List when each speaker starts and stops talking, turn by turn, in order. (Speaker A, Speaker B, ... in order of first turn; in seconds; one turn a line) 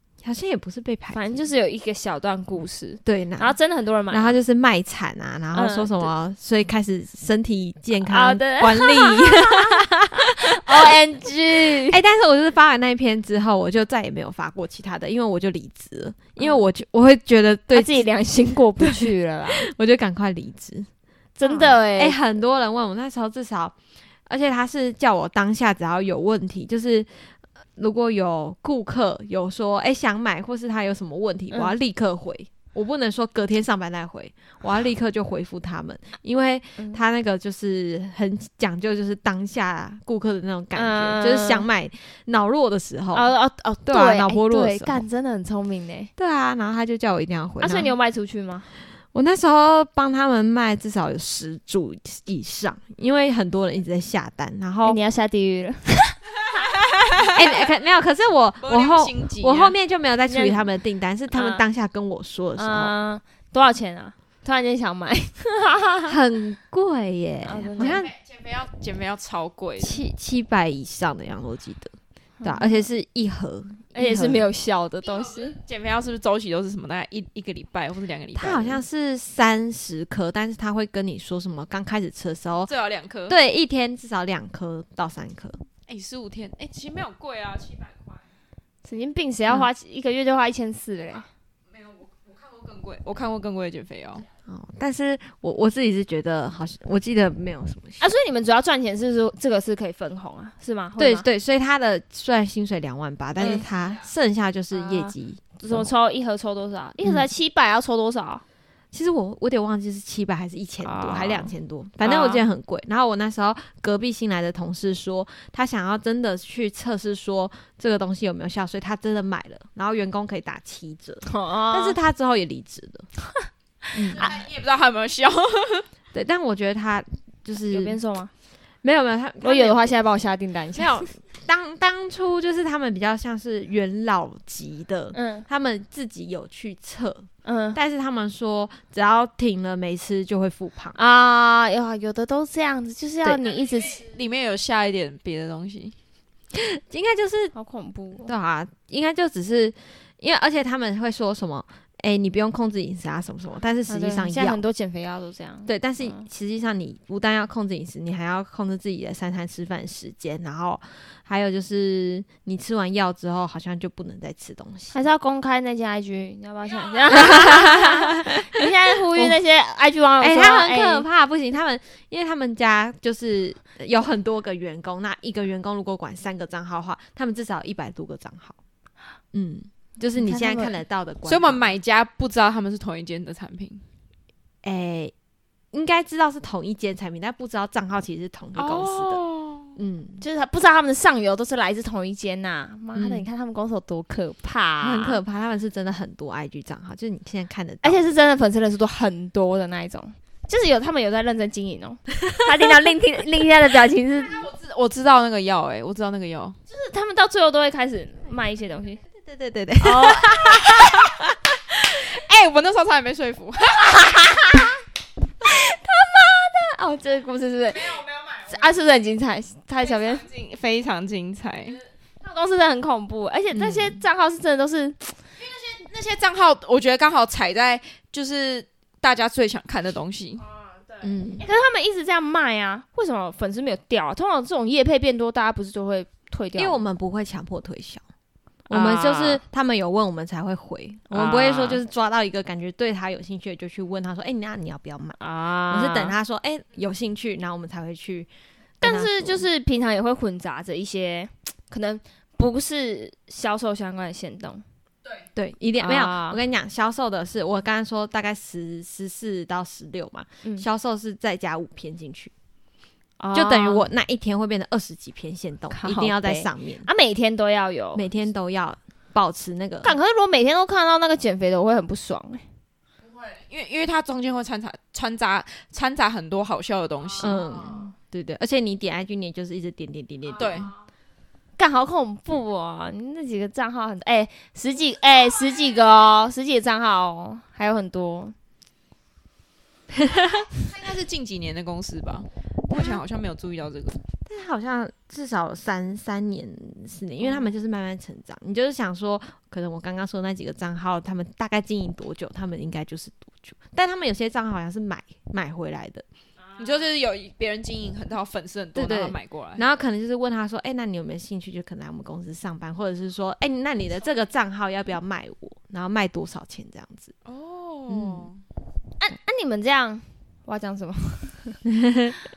Speaker A: 0.2-1.2
Speaker B: 1.1-4.3
Speaker A: 3.0-3.5
Speaker A: 4.1-10.1
Speaker B: 5.5-6.1
Speaker B: 8.0-12.0
Speaker A: 11.7-18.0
Speaker B: 17.7-19.7
Speaker A: 18.8-20.9
Speaker B: 21.4-22.2
Speaker A: 21.4-23.8
Speaker A: 24.3-43.3
Speaker B: 40.7-41.7
Speaker B: 43.1-46.1
Speaker A: 43.9-45.0
Speaker A: 46.2-47.9
Speaker B: 47.6-48.7
Speaker A: 49.1-55.0
Speaker B: 54.8-56.1
Speaker C: 56.6-57.4
Speaker A: 57.3-62.9
Speaker C: 58.6-59.7
Speaker B: 60.3-60.7
Speaker B: 61.3-61.6
Speaker B: 62.6-66.1
Speaker A: 66.1-68.1
Speaker B: 67.4-68.0
Speaker C: 67.8-70.0
Speaker A: 69.8-74.4
Speaker B: 72.4-72.9
Speaker B: 73.9-75.6
Speaker C: 75.2-78.8
Speaker A: 78.3-82.7
Speaker C: 82.7-83.4
Speaker A: 83.3-85.6
Speaker C: 85.9-88.3
Speaker B: 88.8-91.3
Speaker C: 91.7-94.2
Speaker A: 94.5-98.0
Speaker B: 98.0-101.2
Speaker A: 101.0-105.9
Speaker B: 103.4-103.6
Speaker B: 104.7-108.4
Speaker A: 108.9-123.1
Speaker B: 110.8-112.4
Speaker B: 121.2-122.0
Speaker A: 123.9-124.3
Speaker C: 124.1-125.9
Speaker A: 126.1-128.0
Speaker B: 127.7-128.3
Speaker A: 128.8-129.9
Speaker B: 129.4-131.0
Speaker A: 130.8-141.0
Speaker B: 135.1-135.4
Speaker B: 137.4-137.8
Speaker B: 140.9-144.0
Speaker C: 143.8-145.9
Speaker A: 146.5-147.5
Speaker B: 147.5-148.3
Speaker A: 148.2-154.6
Speaker B: 153.9-156.2
Speaker A: 155.7-165.0
Speaker B: 164.9-171.0
Speaker A: 167.2-168.6
Speaker A: 170.2-178.6
Speaker A: 179.3-181.6
Speaker B: 180.2-180.8
Speaker C: 181.2-183.8
Speaker A: 184.6-185.1
Speaker A: 185.7-189.2
Speaker C: 188.6-189.7
Speaker A: 189.8-190.2
Speaker B: 190.2-195.2
Speaker A: 192.9-193.2
Speaker A: 194.8-198.0
Speaker B: 197.8-204.4
Speaker C: 204.2-206.6
Speaker B: 206.7-209.0
Speaker A: 209.3-211.3
Speaker B: 209.8-210.9
Speaker C: 211.8-214.1
Speaker B: 214.2-214.7
Speaker B: 215.4-220.2
Speaker C: 217.8-218.7
Speaker C: 219.8-221.8
Speaker B: 222.2-225.1
Speaker A: 223.5-224.0
Speaker C: 225.4-230.4
Speaker A: 231.0-231.4
Speaker B: 231.4-236.8
Speaker A: 236.6-238.0
Speaker A: 238.7-248.3
Speaker B: 238.7-239.4
Speaker B: 241.1-241.8
Speaker B: 245.2-246.1
Speaker A: 248.8-249.4
Speaker B: 248.8-254.6
Speaker A: 255.3-262.3
Speaker B: 255.8-256.4
Speaker B: 263.2-263.9
Speaker A: 263.3-266.9
Speaker B: 265.7-268.0
Speaker A: 267.9-269.9
Speaker B: 269.8-272.4
Speaker C: 273.0-277.4
Speaker A: 277.2-280.7
Speaker C: 280.4-280.7
Speaker B: 281.6-288.3
Speaker A: 290.1-290.4
Speaker C: 290.5-294.0
Speaker A: 292.7-293.0
Speaker A: 294.2-306.0
Speaker C: 306.6-309.6
Speaker A: 308.7-317.1
Speaker C: 317.2-318.4
Speaker A: 317.9-318.3
Speaker B: 319.0-321.6